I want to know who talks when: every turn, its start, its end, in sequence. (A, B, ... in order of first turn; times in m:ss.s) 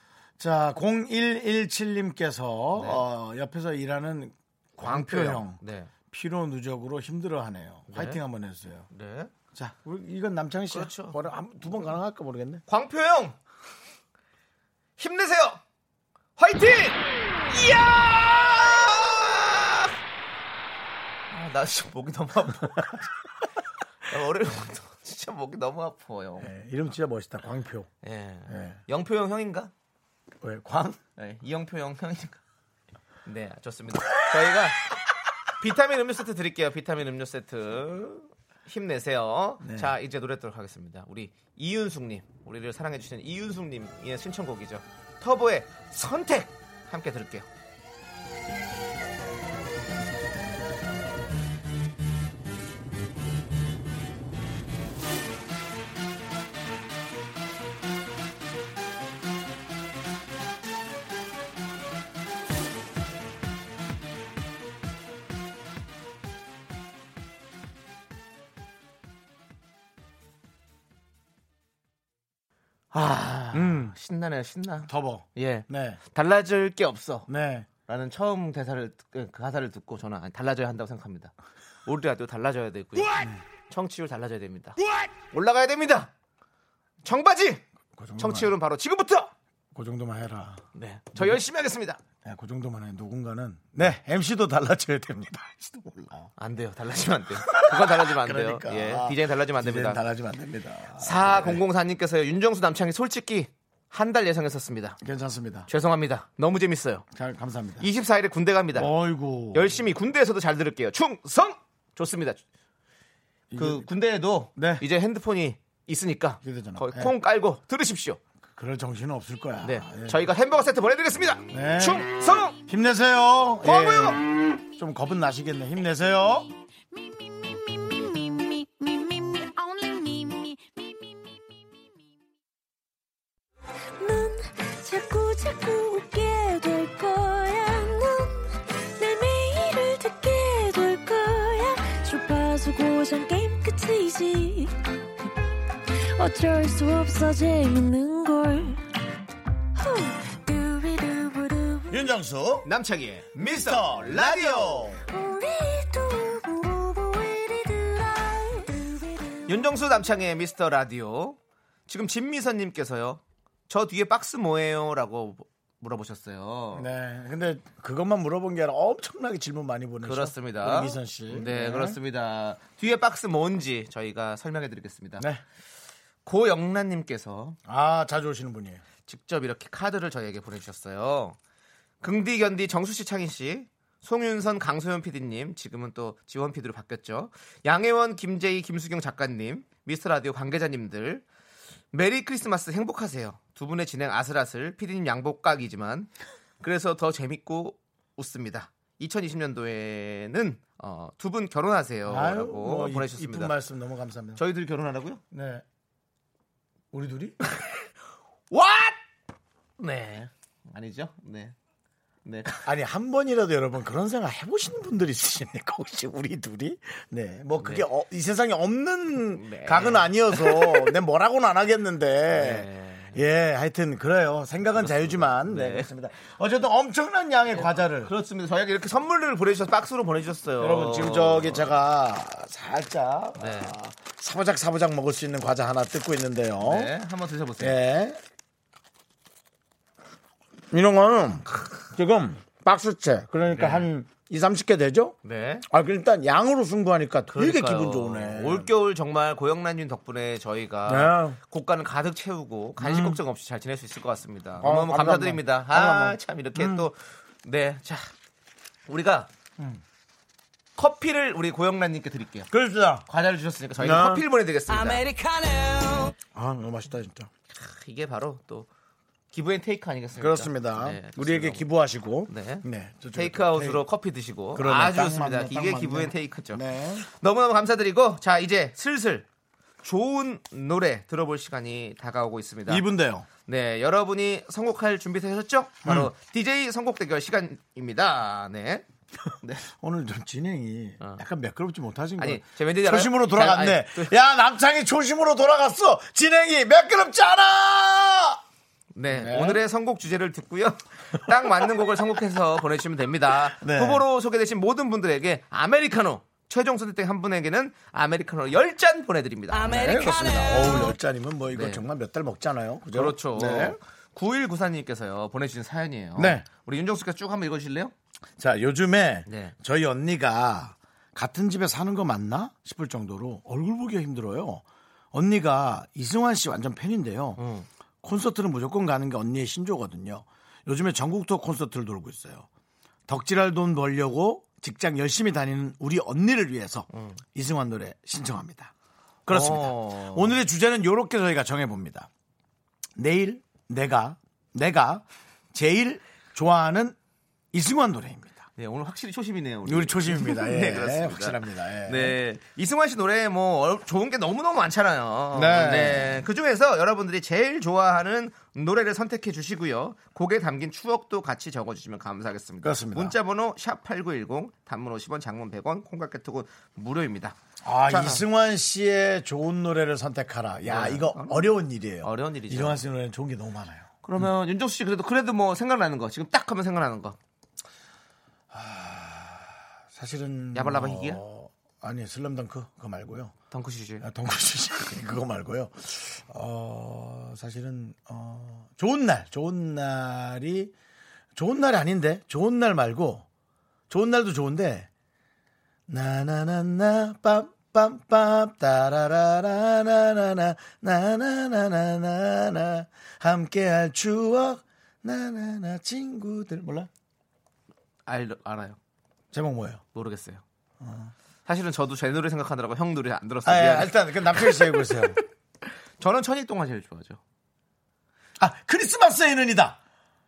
0:00.4-0:08.9 A
0:02.8-0:03.0 B
0:04.8-0:05.9 B
0:07.9-0:08.2 B
0:08.9-0:09.3 B
0:09.5-0:12.6 A
0:10.7-0:11.2 B
0:12.7-0:13.4 B
0:15.0-0:15.6 B
0:16.4-0:19.9 B
0:21.3-0:23.0 B
0:24.0-0:26.5 B
0:26.4-0:27.9 A
0:28.0-0:29.7 B
0:28.5-0:28.8 A
0:30.4-0:31.0 A
0:31.2-0:32.4 B
0:33.2-0:34.8 B
0:35.6-0:47.4 B
0:39.6-0:39.9 A
1:12.9-1:17.3 B
1:13.5-1:13.9 A
1:14.9-1:16.0 A
1:17.3-1:17.7 A
1:17.9-1:21.3 B
1:21.9-1:26.1 B
1:23.1-1:23.4 A
1:27.0-1:27.6 B
1:28.0-1:28.5 A
1:28.2-1:29.3 B
1:29.7-1:30.6 A
1:30.8-1:32.0 B
1:31.1-1:31.4 A
1:32.2-1:36.3 A
1:36.4-1:40.0 B
1:37.4-1:41.6 A
1:41.0-1:45.0 B
1:45.0-1:45.7 A
1:45.7-1:47.0 B
1:47.1-1:47.9 A
1:47.8-1:48.9 B
1:48.7-1:49.9 A
1:49.5-1:52.4 B
1:53.5-1:53.9 A
1:53.5-1:58.2 B
1:54.6-1:54.8 A
1:56.4-1:57.1 A
1:58.5-2:00.2 A
1:59.6-2:02.6 B
2:01.5-2:06.5 A
2:03.6-2:04.2 B
2:06.9-2:11.8 C
2:14.0-2:24.8 C
2:26.0-2:28.8 C
2:29.8-2:31.9 C
2:31.9-2:32.7 A
2:32.6-2:34.9 B
2:33.3-2:35.0 A
2:35.1-2:39.4 C
2:39.5-2:46.9 B
2:46.7-2:52.0 A
2:50.0-2:55.2 B
2:56.2-2:57.6 B
2:57.7-2:58.8 A
2:59.0-3:01.4 B
3:02.0-3:11.2 B
3:11.9-3:23.5 B
3:22.0-3:24.4 A
3:24.4-3:25.2 B
3:25.3-3:25.6 A
3:26.9-3:27.4 A
3:28.5-3:29.0 B
3:29.8-3:31.5 B
3:32.2-3:32.6 B
3:32.6-3:48.1 A
3:39.3-3:40.9 B
3:42.3-3:43.2 B
3:44.8-3:45.9 B
3:47.5-3:51.7 B
3:50.6-3:56.9 A
3:53.4-3:53.8 B
3:56.6-3:57.8 B
3:57.6-3:58.2 A
4:00.7-4:08.7 A
4:03.5-4:03.9 B
4:05.2-4:05.6 B
4:07.3-4:18.1 B
4:10.8-4:11.4 A
4:12.8-4:13.2 A
4:14.6-4:16.9 A
4:18.9-4:19.3 B
4:20.8-4:22.5 B
4:22.5-4:23.0 A
4:23.0-4:25.0 B
4:23.8-4:24.2 A
4:24.7-4:26.1 C
4:26.3-4:27.3 A
4:27.5-4:28.7 B
4:29.3-4:31.6 B
4:30.2-4:33.8 A
4:32.3-4:39.3 B
4:34.5-4:37.0 A
4:39.8-4:42.8 B
4:42.7-4:43.3 A
4:43.5-4:48.8 B
4:45.8-4:46.1 A
4:49.4-4:49.7 B
4:49.7-4:58.4 A
4:52.2-4:54.1 B
4:59.0-5:09.8 B
4:59.1-4:59.6 A
5:03.5-5:04.0 A
5:09.5-5:11.0 C
5:09.6-5:13.8 A
5:11.5-5:11.8 B
5:12.9-5:17.9 B
5:16.2-5:16.4 A
5:18.4-5:27.4 A
5:19.3-5:19.5 B
5:27.4-5:27.7 B
5:28.0-5:32.5 A
5:33.1-5:38.7 A
5:36.9-5:37.2 B
5:39.3-5:42.1 A
5:39.3-5:40.4 B
5:43.0-5:47.0 A
5:47.5-5:48.4 A
5:48.6-6:08.2 B
5:49.6-5:52.2 A
5:55.3-5:56.2 A
6:02.6-6:03.2 A
6:07.6-6:13.9 A
6:10.7-6:12.8 B
6:14.0-6:17.2 B
6:18.5-6:23.3 A
6:20.5-6:21.2 B
6:23.5-6:24.0 B
6:24.0-6:30.7 A
6:31.3-6:33.2 A
6:33.9-6:34.9 A
6:35.9-6:46.9 A
6:48.0-6:48.8 B
6:49.3-6:49.8 A
6:49.9-6:50.4 B
6:50.8-6:51.1 A
6:51.5-6:55.1 B
6:53.4-6:55.2 A
6:56.0-6:57.2 B
6:58.4-6:59.8 A